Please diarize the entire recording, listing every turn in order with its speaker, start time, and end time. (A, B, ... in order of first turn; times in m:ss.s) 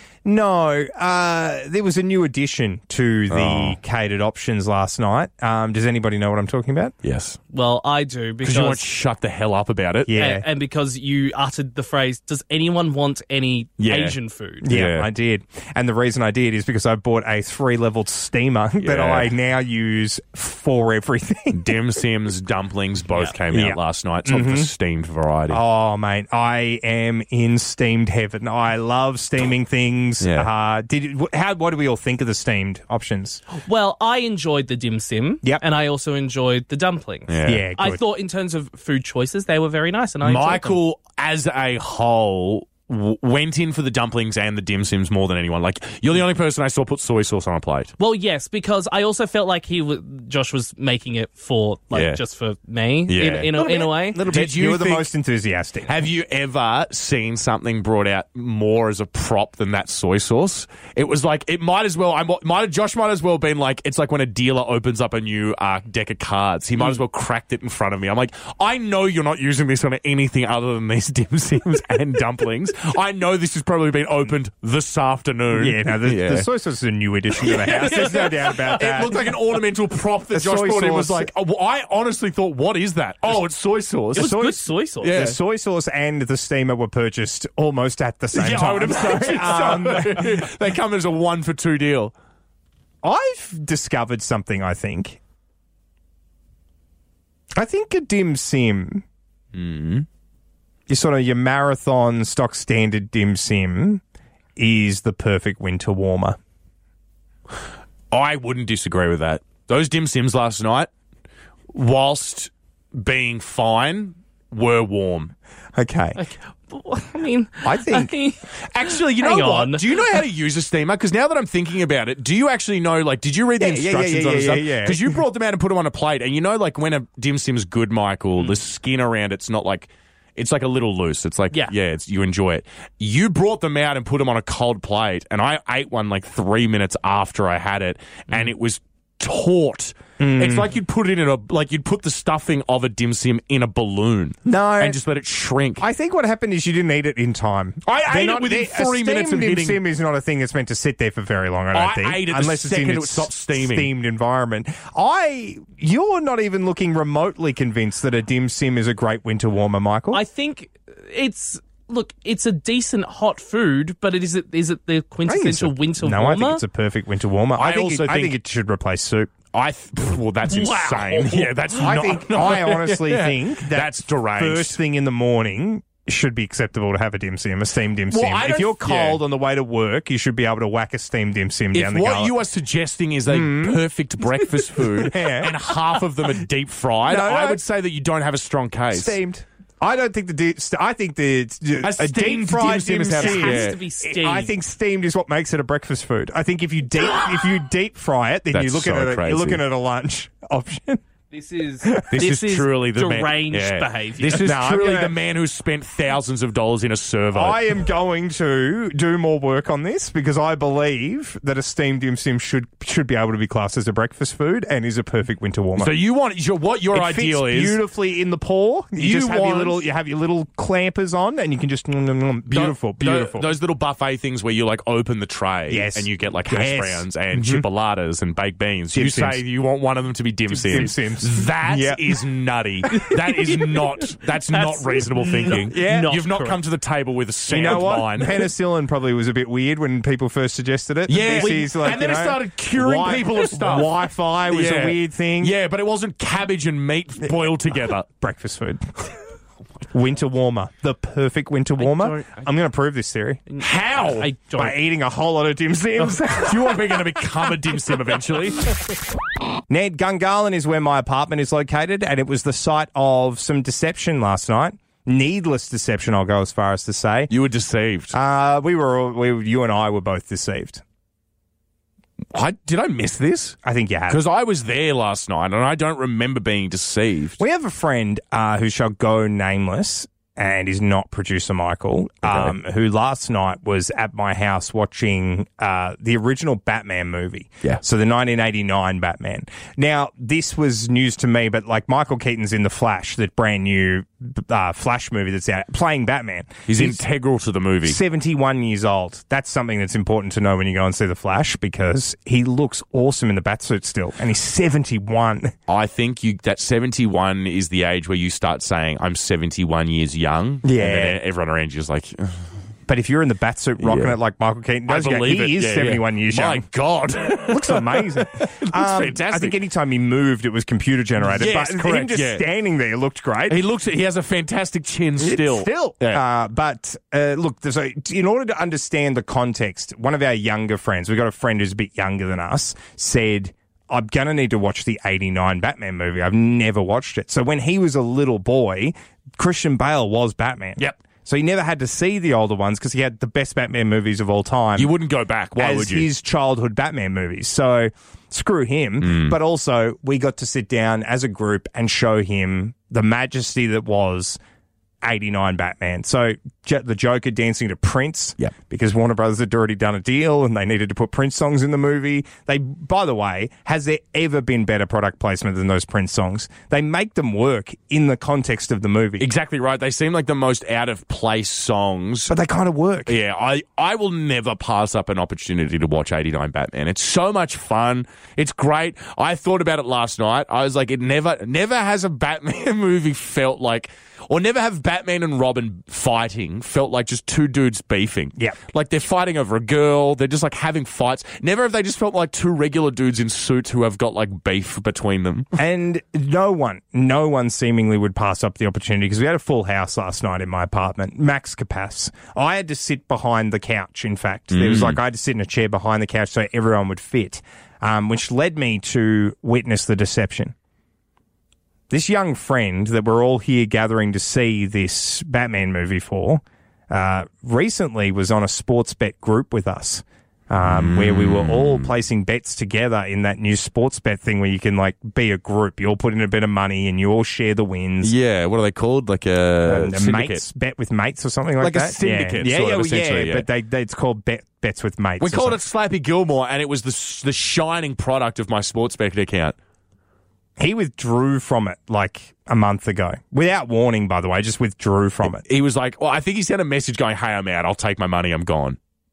0:00.2-0:06.9 A
0:03.3-0:03.8 B
0:07.0-0:07.4 B
0:07.5-0:08.8 C
0:08.4-0:10.1 B
0:10.0-0:10.5 A
0:10.1-0:14.7 C
0:13.8-0:15.1 B
0:14.6-0:21.7 A
0:18.8-0:19.3 B
0:21.5-0:25.6 B
0:23.5-0:24.7 A
0:25.5-0:33.4 A
0:30.2-0:30.5 B
0:33.5-0:40.8 C
0:37.3-0:37.7 B
0:37.4-0:38.0 A
0:40.2-0:47.9 B
0:48.0-0:54.2 C
0:51.9-0:52.2 B
0:53.1-0:53.6 B
0:53.6-0:55.9 A
0:54.2-0:55.1 B
0:55.8-1:16.5 B
1:15.5-1:19.1 A
1:17.4-1:24.4 B
1:17.4-1:19.3 C
1:20.3-1:21.3 A
1:24.2-1:25.1 C
1:24.2-1:30.4 A
1:25.0-1:25.4 B
1:28.3-1:32.1 B
1:33.0-1:35.2 A
1:37.5-1:39.0 A
1:39.5-1:40.0 B
1:40.9-1:44.0 A
1:44.6-1:46.4 A
1:48.1-1:50.9 B
1:51.7-1:55.3 B
1:55.8-1:56.2 A
1:56.2-2:00.2 C
1:57.6-1:58.1 A
1:58.6-2:25.8 B
2:03.6-2:05.2 A
2:20.2-2:20.7 A
2:24.4-2:25.0 A
2:25.8-2:40.2 A
2:27.8-2:29.8 B
2:31.7-2:33.9 B
2:40.1-2:46.6 C
2:45.2-2:49.3 A
2:47.6-2:48.4 B
2:49.5-2:54.8 B
2:50.4-2:51.5 C
2:51.7-3:02.3 A
2:58.1-2:59.2 B
3:01.7-3:09.2 B
3:03.3-3:03.8 A
3:04.8-3:05.5 A
3:07.1-3:07.6 A
3:08.9-3:21.0 A
3:11.8-3:13.8 B
3:13.2-3:14.5 C
3:18.5-3:19.6 B
3:21.3-3:24.5 C
3:21.8-3:22.2 A
3:22.1-3:27.6 B
3:24.3-3:25.1 A
3:27.3-3:36.0 A
3:35.8-3:37.8 B
3:36.9-3:43.5 A
3:39.0-3:39.8 B
3:42.5-3:58.4 B
3:45.7-3:47.6 A
3:48.9-3:49.4 A
3:50.5-3:52.2 A
3:54.5-3:56.5 C
3:55.5-3:56.2 A
3:57.5-4:05.5 A
4:01.1-4:03.9 B
4:01.4-4:02.2 C
4:04.5-4:08.0 B
4:08.0-4:08.9 A
4:09.9-4:13.4 A
4:11.8-4:12.4 C
4:13.5-4:14.8 C
4:13.6-4:14.3 B
4:14.6-4:17.1 A
4:16.0-4:18.8 B
4:19.7-4:27.3 A
4:27.3-4:28.1 B
4:28.1-4:30.8 A
4:32.3-4:33.6 B
4:33.6-4:34.2 A
4:34.1-4:37.4 B
4:37.4-4:57.0 A
4:42.2-4:42.5 B
4:56.7-4:58.0 B
4:57.8-5:05.5 A
5:05.7-5:12.5 B
5:10.6-5:11.2 A
5:12.9-5:16.6 A
5:13.8-5:14.2 B
5:14.9-5:19.6 B
5:17.4-5:23.6 A
5:21.2-5:22.4 B
5:23.5-5:26.2 B
5:25.2-5:44.9 A
5:44.8-5:46.1 B
5:45.6-5:54.4 A
5:49.0-5:49.4 B
5:55.0-6:09.3 A
6:09.2-6:12.3 B
6:12.3-6:13.1 A
6:13.1-6:35.5 B
6:35.6-6:50.5 A
6:44.5-6:45.0 B
6:51.9-7:08.1 A
7:00.6-7:01.9 B
7:08.0-7:10.4 B
7:09.6-7:15.6 A
7:11.6-7:13.4 B
7:15.2-7:19.6 B
7:20.6-7:25.4 A
7:25.2-7:28.8 B